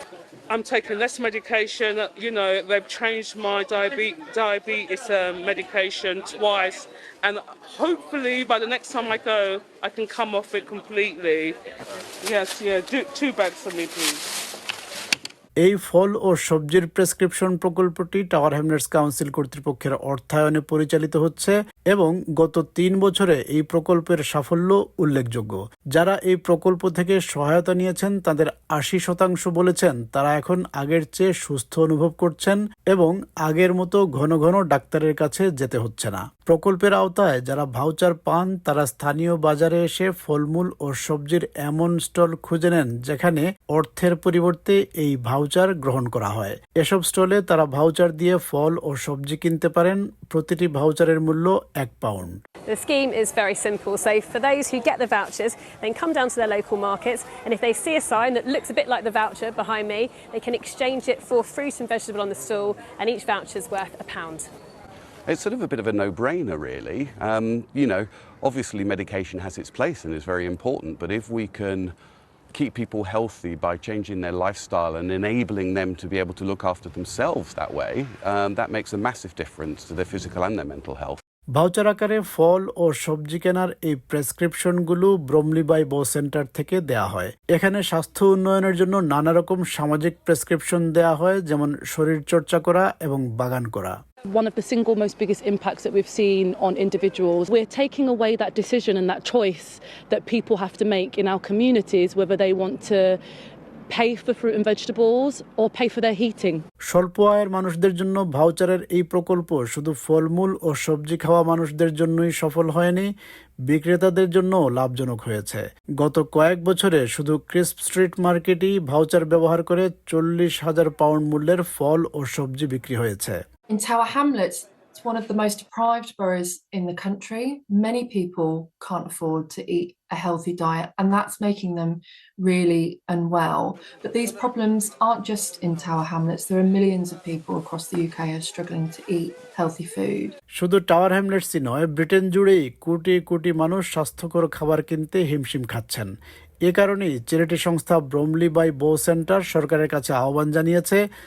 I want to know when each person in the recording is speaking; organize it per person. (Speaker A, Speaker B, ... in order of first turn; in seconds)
Speaker A: 0.5-11.6, 12.2-14.2
Speaker B: 15.6-52.4, 81.6-94.0, 106.9-113.1, 113.7-123.4, 140.6-146.1, 146.7-151.0
Speaker C: 52.7-64.5
Speaker D: 65.3-71.9, 72.5-81.2
Speaker E: 94.3-103.2, 103.9-106.6
Speaker F: 123.7-140.3